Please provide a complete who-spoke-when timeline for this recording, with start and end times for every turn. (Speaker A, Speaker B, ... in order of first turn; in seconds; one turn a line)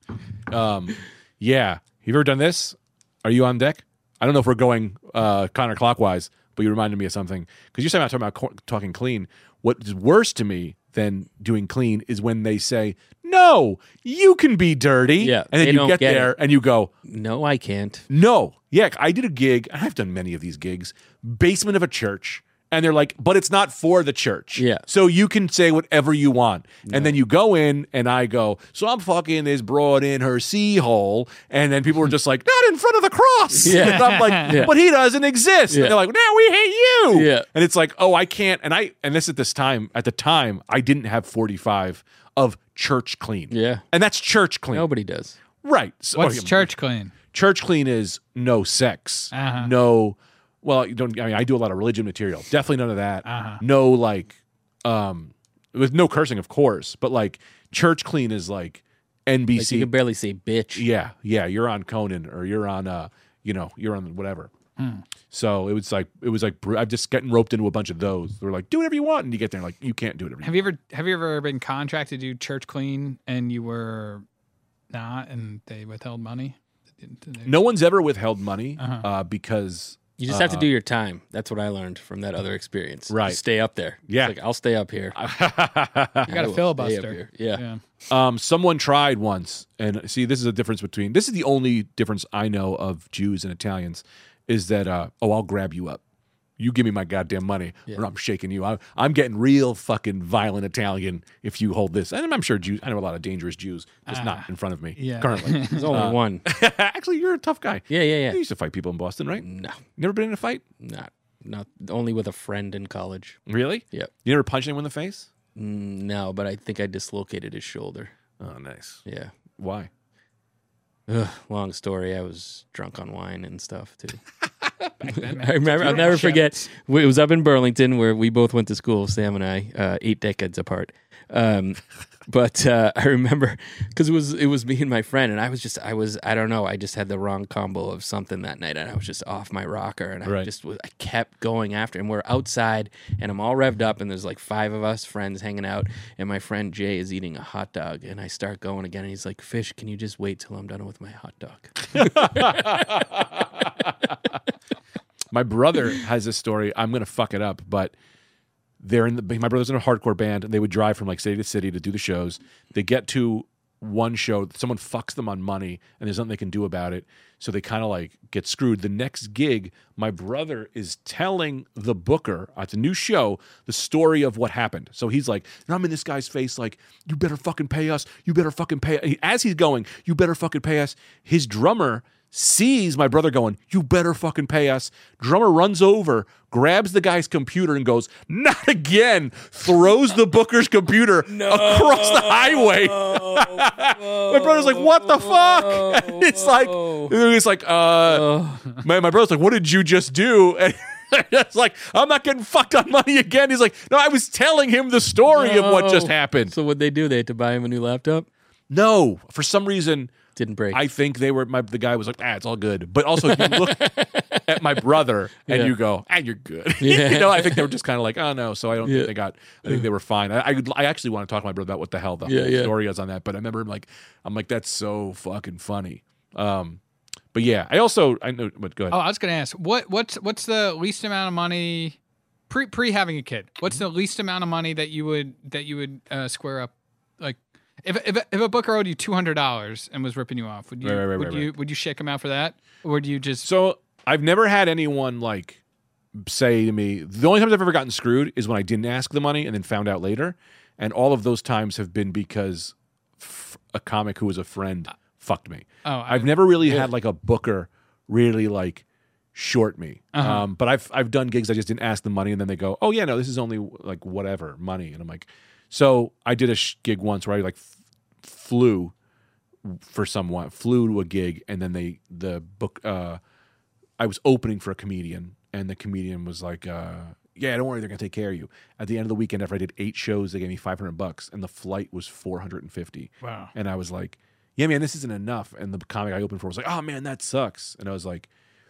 Speaker A: 0.5-16.9
Speaker B: 15.2-16.4
Speaker B: 17.0-18.1
Speaker A: 18.1-44.9
Speaker B: 24.6-24.8
Speaker B: 26.9-27.2
Speaker B: 33.5-34.7
Speaker C: 33.8-34.6
Speaker B: 35.7-36.0
Speaker B: 37.1-37.5
Speaker B: 43.5-43.8
Speaker B: 44.7-45.4
Speaker A: 45.6-46.7
Speaker C: 46.1-47.1
Speaker A: 47.3-59.9
Speaker C: 49.3-49.7
Speaker C: 53.2-53.6
Speaker B: 59.5-60.9
Speaker A: 60.7-64.5
Speaker C: 64.8-65.0
Speaker A: 65.3-70.7
Speaker C: 70.4-74.2
Speaker C: 74.9-77.5
Speaker A: 77.4-80.7
Speaker C: 78.8-79.0
Speaker B: 80.2-85.2
Speaker A: 83.1-83.4
Speaker A: 84.1-84.3
Speaker A: 85.1-86.5
Speaker B: 86.2-87.6
Speaker C: 86.3-87.8
Speaker A: 88.1-96.0
Speaker A: 96.6-109.4
Speaker C: 104.1-105.9
Speaker B: 105.6-106.5
Speaker B: 107.9-108.4
Speaker B: 109.4-109.8
Speaker A: 110.0-110.6
Speaker B: 110.8-113.4
Speaker A: 113.5-115.3
Speaker B: 115.5-118.1
Speaker A: 118.4-119.0
Speaker B: 119.0-119.3
Speaker A: 119.6-119.9
Speaker B: 121.1-124.2
Speaker A: 124.8-126.4
Speaker B: 125.1-152.8
Speaker C: 125.4-126.7
Speaker A: 151.9-154.2
Speaker A: 155.3-157.9
Speaker A: 158.8-206.5
Speaker B: 191.3-197.1
Speaker B: 198.0-198.7
Speaker B: 205.3-208.3
Speaker A: 208.7-210.1
Speaker B: 210.3-210.8
Speaker A: 210.7-226.8
Speaker B: 213.2-214.9
Speaker B: 215.4-215.7
Speaker B: 216.8-217.7
Speaker B: 218.8-219.1
Speaker B: 222.2-222.7
Speaker A: 227.3-229.0
Speaker C: 228.9-232.0
Speaker C: 232.5-243.5
Speaker A: 240.8-241.5
Speaker A: 243.4-245.6
Speaker A: 246.2-267.7
Speaker C: 255.8-256.6
Speaker C: 260.1-260.4
Speaker A: 268.2-268.9
Speaker A: 269.6-273.2
Speaker A: 274.0-288.3
Speaker C: 283.2-283.5